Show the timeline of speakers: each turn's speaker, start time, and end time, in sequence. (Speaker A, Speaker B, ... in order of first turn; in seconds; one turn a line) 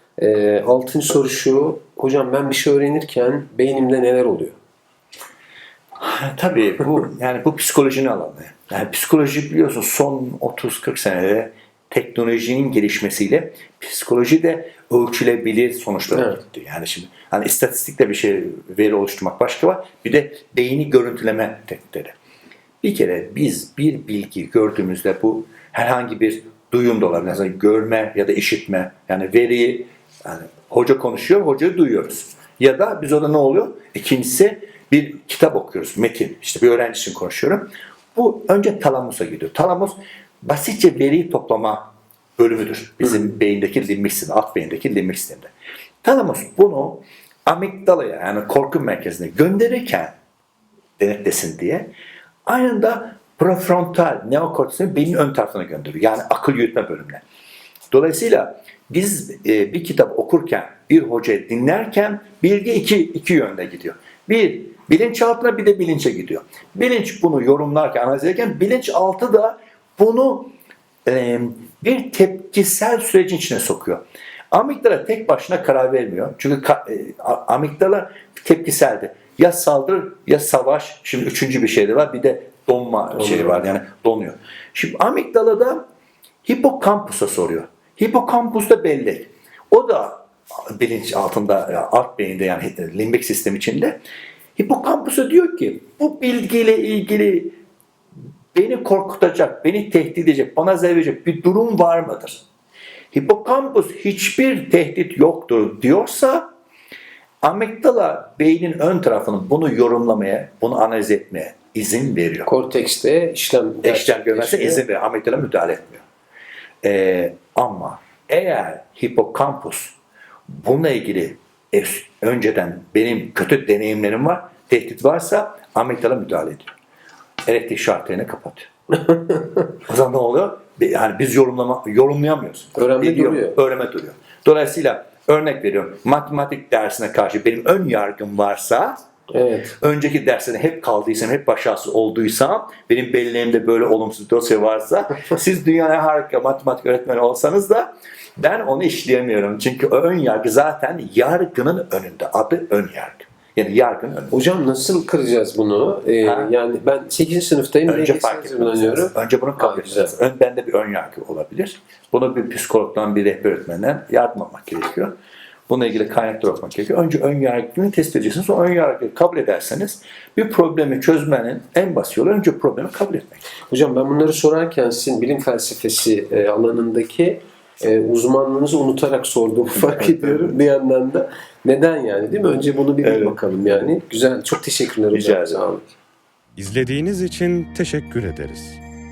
Speaker A: 0.2-4.6
Speaker B: 6.0-22.1
Speaker B: 22.8-45.5
Speaker B: 46.0-50.1
Speaker B: 51.0-51.9
Speaker B: 52.5-57.2
Speaker B: 57.9-70.5
Speaker B: 71.0-85.8
Speaker A: 83.2-83.6
Speaker B: 86.4-94.0
Speaker B: 94.6-97.5
Speaker B: 98.5-102.4
Speaker B: 103.1-106.5
Speaker B: 107.4-112.5
Speaker A: 112.5-114.8
Speaker B: 113.8-116.0
Speaker B: 116.8-120.0
Speaker B: 120.5-126.7
Speaker B: 127.5-128.7
Speaker A: 129.1-129.4
Speaker B: 129.8-139.0
Speaker A: 132.8-133.6
Speaker A: 139.3-139.8
Speaker B: 139.8-154.4
Speaker A: 154.3-160.1
Speaker B: 156.2-156.5
Speaker B: 157.9-165.2
Speaker B: 165.7-173.4
Speaker A: 173.7-185.9
Speaker B: 180.0-180.4
Speaker B: 183.0-183.9
Speaker B: 185.1-185.6
Speaker C: 186.6-188.8